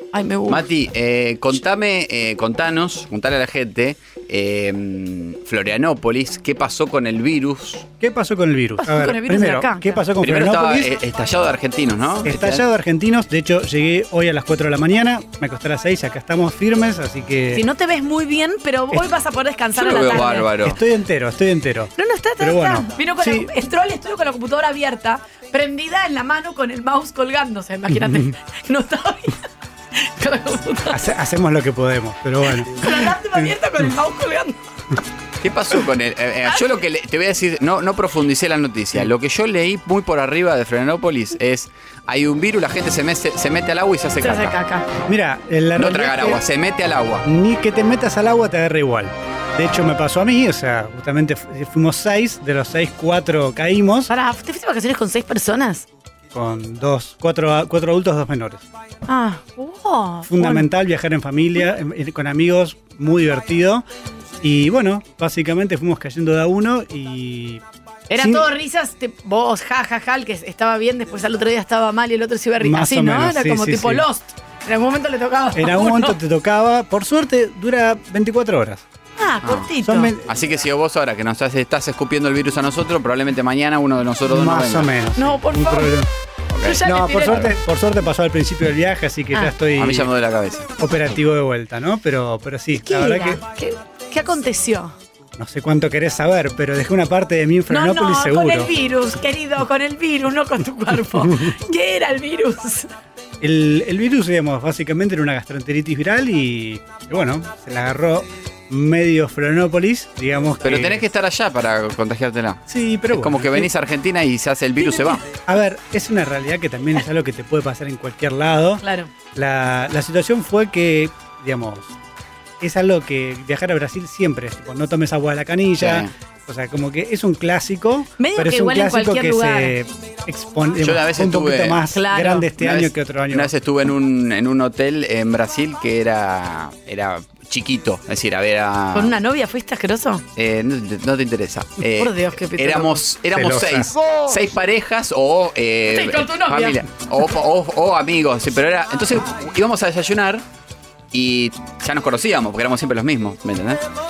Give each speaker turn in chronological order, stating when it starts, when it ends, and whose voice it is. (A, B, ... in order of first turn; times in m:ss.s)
0:00.1-0:00.7 A
0:00.5-0:07.9 B
0:08.0-0:10.9 C
0:08.8-0:10.0 A
0:10.2-0:12.6 B
0:12.2-0:17.6 C
0:17.5-0:20.5 A
0:19.8-0:20.8 B
0:20.6-0:23.5 C
0:22.0-0:29.4 A
0:28.0-0:28.3 C
0:30.0-0:31.0 A
0:30.9-0:33.4 C
0:32.6-0:34.6 A
0:35.4-0:44.6 B
0:44.2-0:44.9 A
0:45.1-0:46.4 C
0:45.8-0:47.2 B
0:47.2-0:54.1 C
0:54.1-0:55.9 A
0:56.3-0:58.6 C
0:59.1-1:00.7 A
1:00.3-1:03.8 C
1:04.4-1:07.6 C
1:08.1-1:16.2 A
1:08.2-1:08.5 C
1:12.6-1:14.1 C
1:15.5-1:18.8 C
1:19.2-1:20.1 A
1:19.8-1:20.3 C
1:20.2-1:24.9 B
1:24.2-1:26.1 C
1:25.2-1:25.9 A
1:26.5-1:27.5 B
1:26.6-1:27.5 A
1:26.8-1:30.1 C
1:29.8-1:30.7 B
1:30.8-1:33.4 C
1:32.7-1:35.0 A
1:35.4-1:38.7 C
1:37.7-1:42.9 A
1:41.2-1:41.6 C
1:43.4-1:51.1 C
1:50.6-1:55.2 B
1:52.7-1:53.7 C
1:54.8-1:55.2 A
1:55.5-2:02.0 C
1:58.8-1:59.1 A
2:02.6-2:13.5 C
2:05.8-2:06.1 B
2:08.2-2:09.8 A
2:10.8-2:11.8 B
2:11.9-2:12.5 A
2:12.6-2:19.2 B
2:18.9-2:20.2 A
2:20.4-2:30.4 B
2:22.0-2:23.0 A
2:23.3-2:23.9 C
2:25.9-2:26.8 A
2:31.1-2:33.8 B